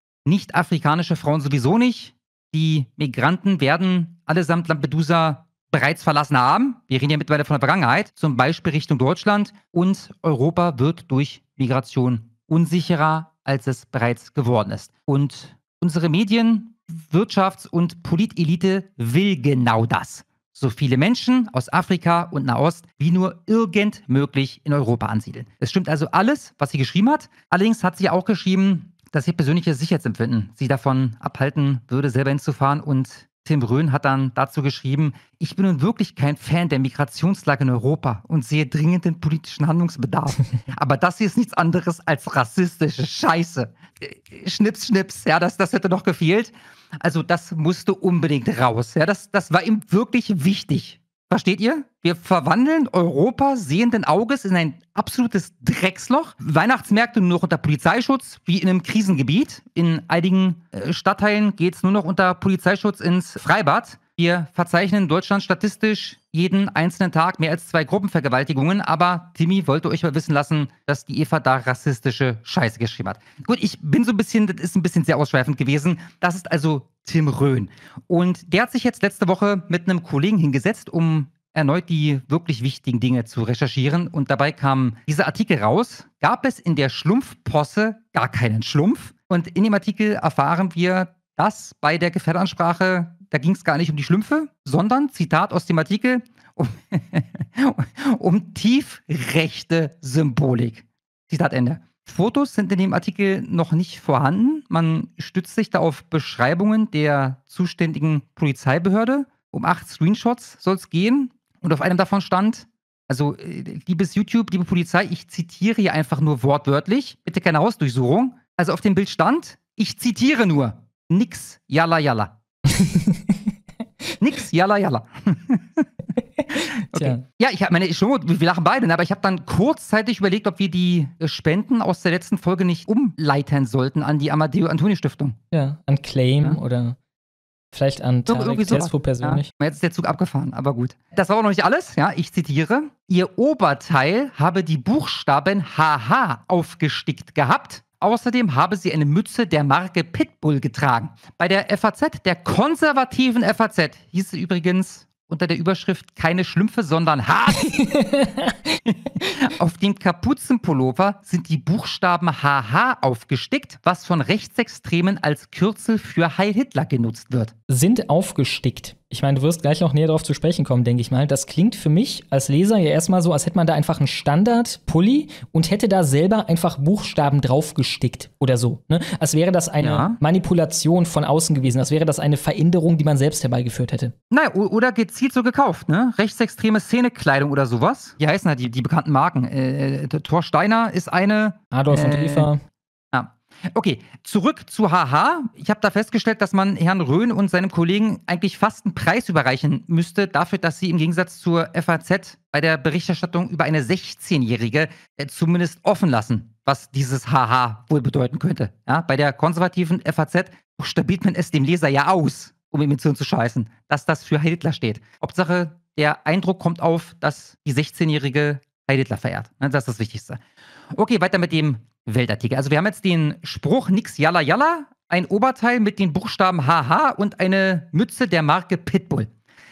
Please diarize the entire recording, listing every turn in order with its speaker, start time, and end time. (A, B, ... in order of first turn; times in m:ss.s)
0:00.2-2:02.3 A
2:02.7-2:03.4 B
2:04.2-2:05.9 A
2:06.5-2:07.2 B
2:06.6-2:15.4 A
2:15.5-2:17.0 B
2:17.7-2:19.5 B
2:18.3-2:37.8 A
2:37.6-2:38.8 B
2:38.9-2:47.5 A
2:47.7-3:04.1 B
2:59.8-3:00.2 A
3:04.3-3:12.5 A
3:11.7-3:12.6 B
3:13.1-3:40.4 A
3:40.9-3:49.3 A